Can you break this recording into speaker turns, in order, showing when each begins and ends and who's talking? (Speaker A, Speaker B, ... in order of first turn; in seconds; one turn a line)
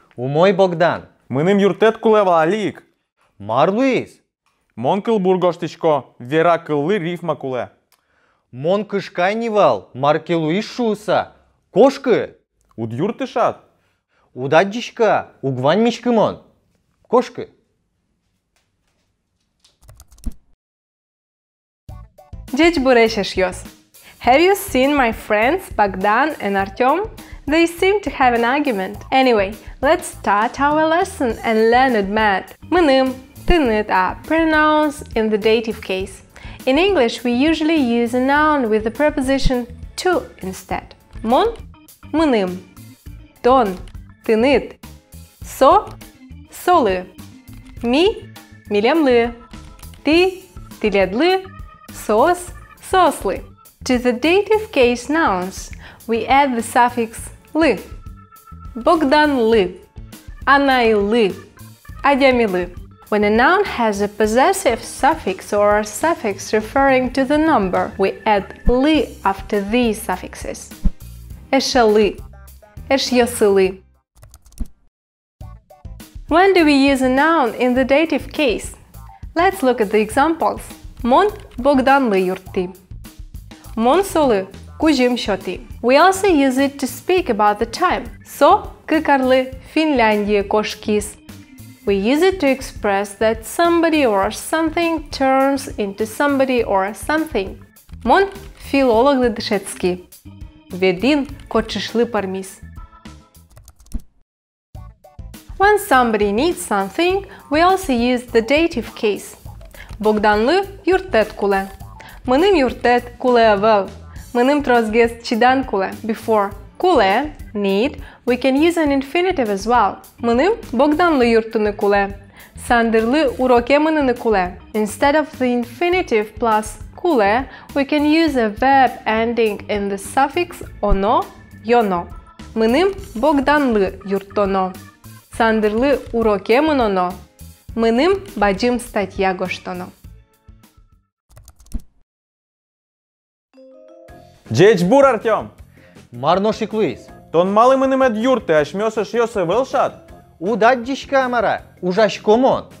Speaker A: 0.2-1.1
Speaker B: 1.3-2.8
Speaker A: 3.4-4.2
Speaker B: 4.8-7.7
Speaker A: 8.5-12.3
Speaker B: 12.8-13.6
Speaker A: 14.3-16.4
Speaker A: 17.1-17.5
Speaker C: 22.5-23.7
Speaker C: 24.2-41.6
Speaker C: 42.1-42.7
Speaker C: 43.4-44.8
Speaker C: 45.4-45.9
Speaker C: 46.5-47.1
Speaker C: 47.8-49.4
Speaker C: 50.0-57.9
Speaker C: 58.7-59.9
Speaker C: 60.5-61.5
Speaker C: 62.0-70.7
Speaker C: 71.5-72.2
Speaker C: 72.9-73.8
Speaker C: 76.3-78.8
Speaker C: 79.3-82.7
Speaker C: 83.7-91.2
Speaker C: 91.8-100.1
Speaker C: 100.7-102.6
Speaker C: 105.6-109.4
Speaker C: 110.0-111.7
Speaker C: 112.2-134.8
Speaker C: 135.3-137.2
Speaker C: 137.7-139.9
Speaker B: 144.5-145.5
Speaker A: 146.1-147.1
Speaker B: 147.3-150.0
Speaker A: 150.4-152.7